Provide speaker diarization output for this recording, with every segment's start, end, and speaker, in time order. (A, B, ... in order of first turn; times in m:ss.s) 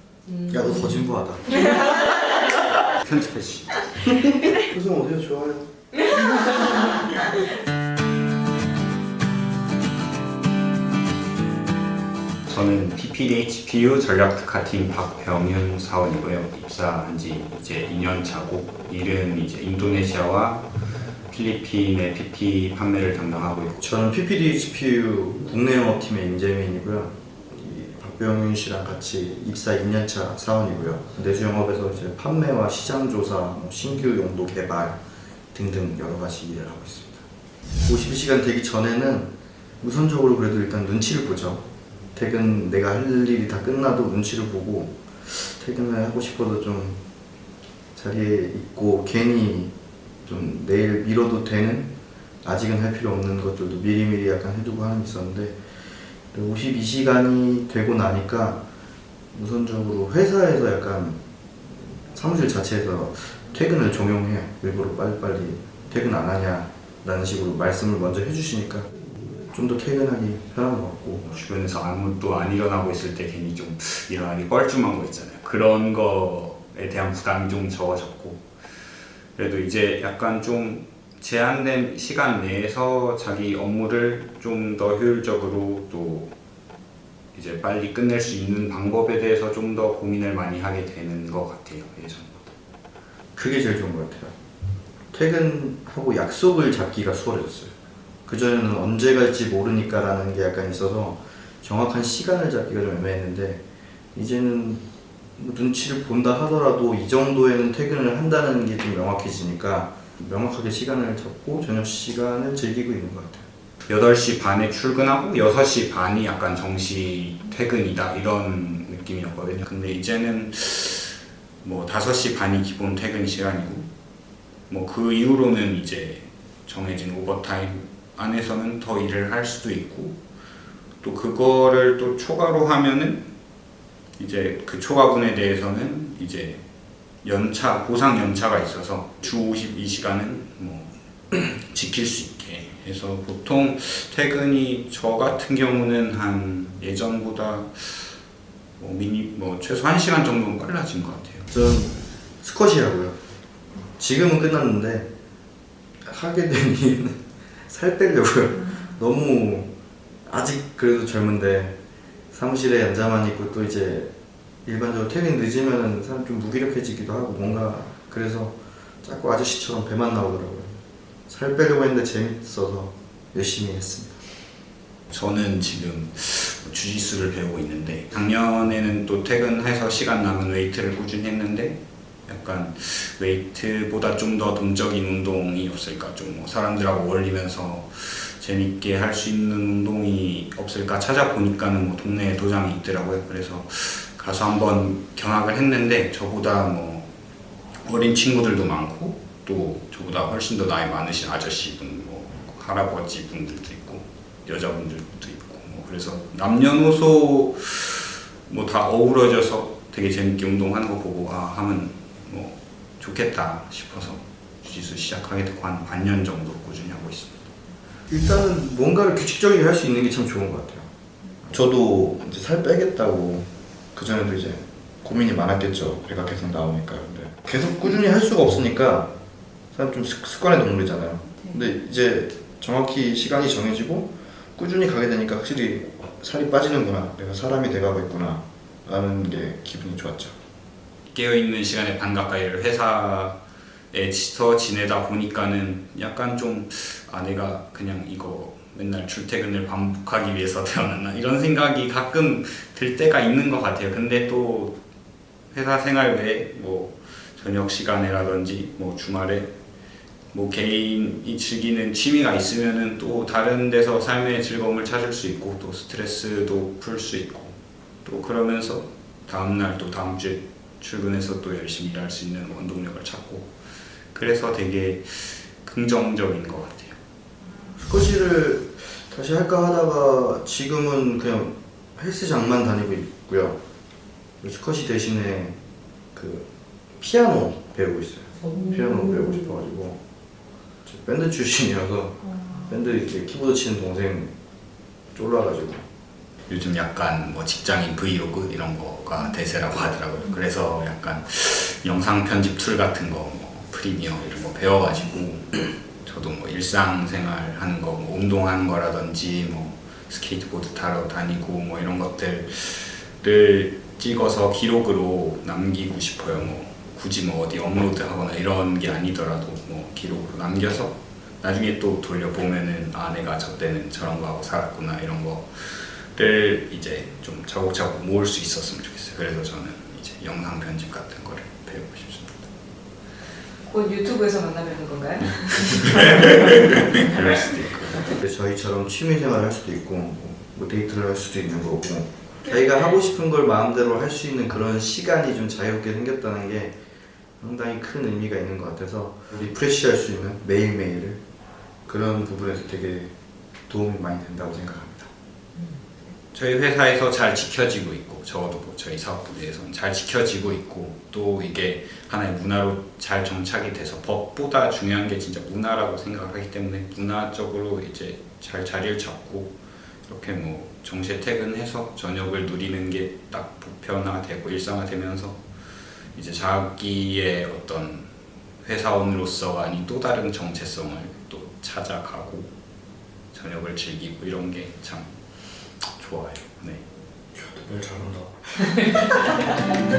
0:00.3-0:00.7 A
0:00.5-0:01.9 B
0:01.7-0:02.3 A
0:02.8-0:03.9 C
0:04.0-0:06.5 B
0:06.4-0:06.9 A
0:12.5-0:20.8 C
0:21.3-0:23.8 C
0:23.8-0:35.0 B
0:35.5-0:37.2 B
0:37.8-0:47.0 B
0:48.0-0:49.7 B
0:50.2-0:55.6 B
0:56.3-0:58.6 B
0:59.3-1:01.2 B
1:02.1-1:08.9 B
1:09.5-1:11.3 B
1:11.2-1:18.5 C
1:19.4-1:26.3 C
1:27.3-1:32.5 C
1:33.4-1:34.3 B
1:35.1-1:37.7 B
1:38.3-1:43.6 B
1:44.1-1:44.8 B
1:45.4-1:53.5 B
1:53.9-2:03.9 C
2:04.7-2:10.2 C
2:11.0-2:13.3 C
2:14.2-2:16.6 C
2:17.2-2:28.2 C
2:28.8-2:31.5 C
2:31.5-2:33.2 B
2:33.9-2:35.1 B
2:36.0-2:39.7 B
2:40.3-2:41.8 B
2:42.3-2:44.1 B
2:44.6-2:54.2 B
2:55.1-3:17.1 C
3:17.8-3:37.5 C
3:38.1-3:40.9 B
3:41.5-3:49.1 B
3:49.7-4:00.4 B
4:01.1-4:03.4 C
4:03.9-4:14.8 C
4:15.5-4:19.5 C
4:20.3-4:33.5 C
4:34.1-4:37.0 C
4:37.8-4:43.6 B
4:44.4-4:45.6 B
4:46.1-4:50.0 B
4:50.8-4:54.3 B
4:55.1-4:55.9 B
4:56.5-5:32.5 C
5:33.6-5:36.6 A
5:35.2-5:38.2 C
5:38.1-5:46.8 B
5:47.4-5:51.2 B
5:51.9-5:53.1 B
5:53.7-5:55.1 B
5:56.3-6:09.6 C
6:10.1-6:15.4 C
6:16.2-6:18.1 C
6:18.6-6:22.5 C
6:23.3-6:25.1 C
6:25.8-6:26.8 C
6:27.3-6:29.6 B